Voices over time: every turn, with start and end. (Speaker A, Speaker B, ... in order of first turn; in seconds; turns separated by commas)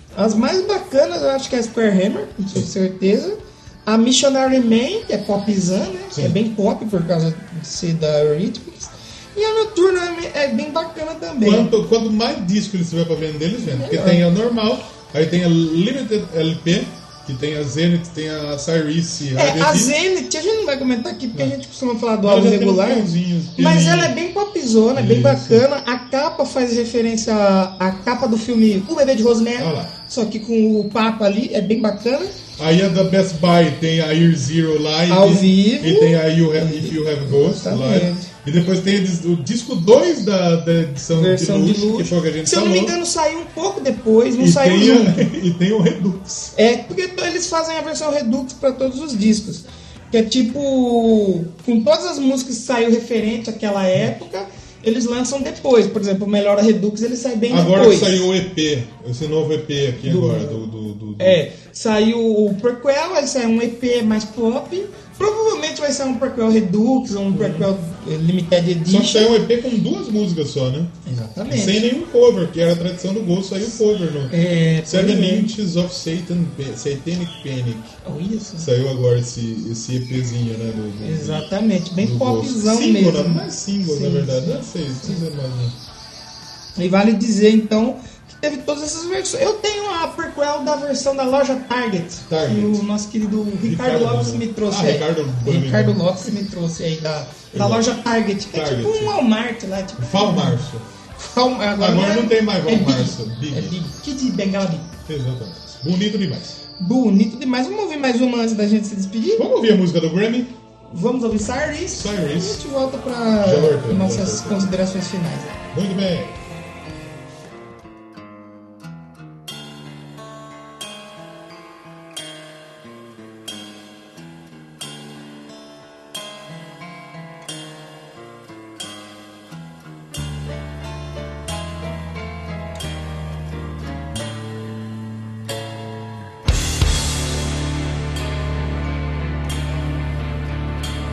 Speaker A: 0.1-11.7, Speaker B: 6.1-6.4, Speaker B: 11.4-19.9, Speaker A: 13.6-14.2, Speaker A: 19.3-32.4, Speaker B: 22.2-24.1, Speaker B: 24.9-25.6, Speaker B: 29.6-29.9, Speaker B: 32.6-43.0, Speaker A: 35.1-38.3, Speaker A: 41.1-45.3, Speaker B: 44.4-46.5, Speaker A: 46.5-58.3, Speaker B: 57.5-61.4, Speaker A: 60.0-60.6, Speaker A: 61.2-69.3, Speaker B: 67.3-67.7, Speaker B: 68.8-70.9, Speaker A: 71.0-71.9, Speaker B: 71.5-78.0, Speaker A: 74.3-75.5, Speaker A: 78.0-78.7, Speaker B: 78.6-85.8, Speaker A: 81.0-85.2, Speaker A: 86.8-104.9, Speaker B: 92.3-92.8, Speaker B: 93.6-96.3, Speaker B: 97.5-97.9, Speaker B: 98.5-99.2, Speaker B: 100.0-100.8, Speaker B: 101.8-103.8, Speaker B: 105.1-106.6, Speaker A: 106.8-109.5, Speaker B: 109.3-110.5, Speaker A: 110.9-115.5, Speaker B: 111.9-112.6, Speaker B: 113.4-114.7, Speaker B: 115.7-116.3